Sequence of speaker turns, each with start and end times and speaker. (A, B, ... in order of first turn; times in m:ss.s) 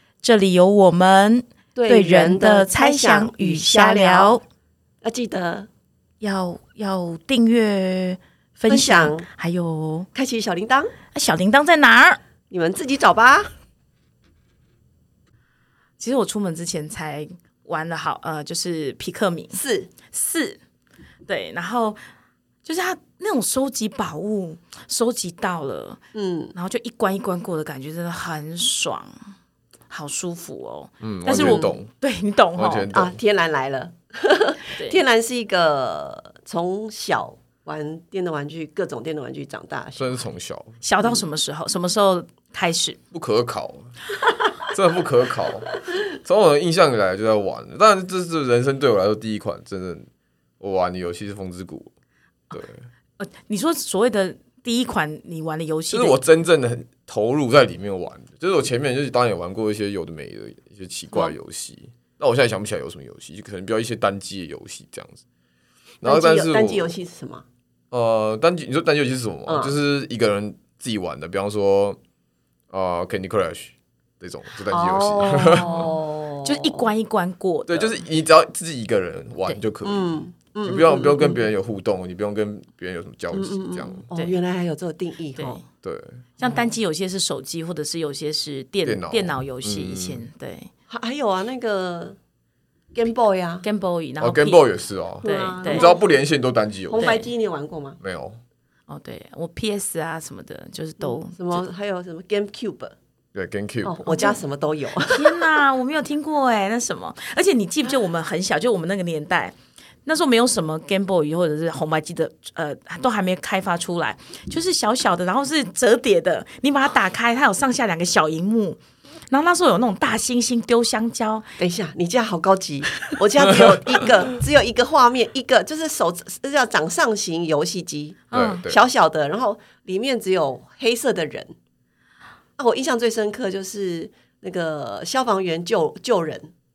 0:00.2-0:04.4 A
0:01.7-0:04.4 B
0:05.0-0:05.7 B
0:06.2-0:10.1 A
0:08.7-0:09.3 B
0:10.1-0:10.9 B
0:11.1-0:12.2 A
0:12.5-0:13.5 B
0:16.0-0:20.6 A
0:19.5-0:19.9 B
0:21.3-0:22.0 A
0:22.6-0:26.0 A
0:26.1-0:26.5 B
0:26.5-0:29.1 A
0:29.9-0:32.9 A
0:31.0-0:31.9 C
0:31.3-0:31.7 B
0:32.6-0:33.2 C
0:32.9-0:40.2 B
0:40.0-0:40.8 C
0:40.8-0:43.0 A
0:43.1-0:43.9 C
0:44.7-0:50.0 C
0:50.6-0:51.9 C
0:52.5-0:52.8 C
0:53.2-0:56.2 A
0:55.9-1:05.2 C
1:06.0-1:06.9 C
1:06.0-1:07.4 B
1:07.9-1:12.0 C
1:09.4-1:09.7 B
1:12.7-1:15.9 C
1:14.7-1:16.8 B
1:15.6-1:15.9 A
1:16.4-1:18.0 A
1:17.7-1:20.1 C
1:19.8-1:21.4 B
1:20.6-1:24.0 C
1:23.3-1:25.6 B
1:25.8-1:26.2 C
1:26.4-1:30.7 A
1:28.8-1:30.2 C
1:30.9-1:32.2 B
1:32.9-1:33.6 B
1:33.6-1:34.6 A
1:34.2-1:37.2 C
1:35.2-1:35.9 A
1:35.2-1:36.0 B
1:36.9-1:38.0 B
1:37.0-1:37.3 A
1:38.0-1:38.4 C
1:38.9-1:41.6 A
1:41.0-1:42.9 B
1:43.3-1:44.2 C
1:43.8-1:45.4 B
1:44.1-1:44.4 A
1:45.0-1:49.5 A
1:50.0-2:01.5 A
2:01.6-2:11.5 B
2:08.3-2:08.6 A
2:08.3-2:08.8 C
2:12.6-2:16.5 B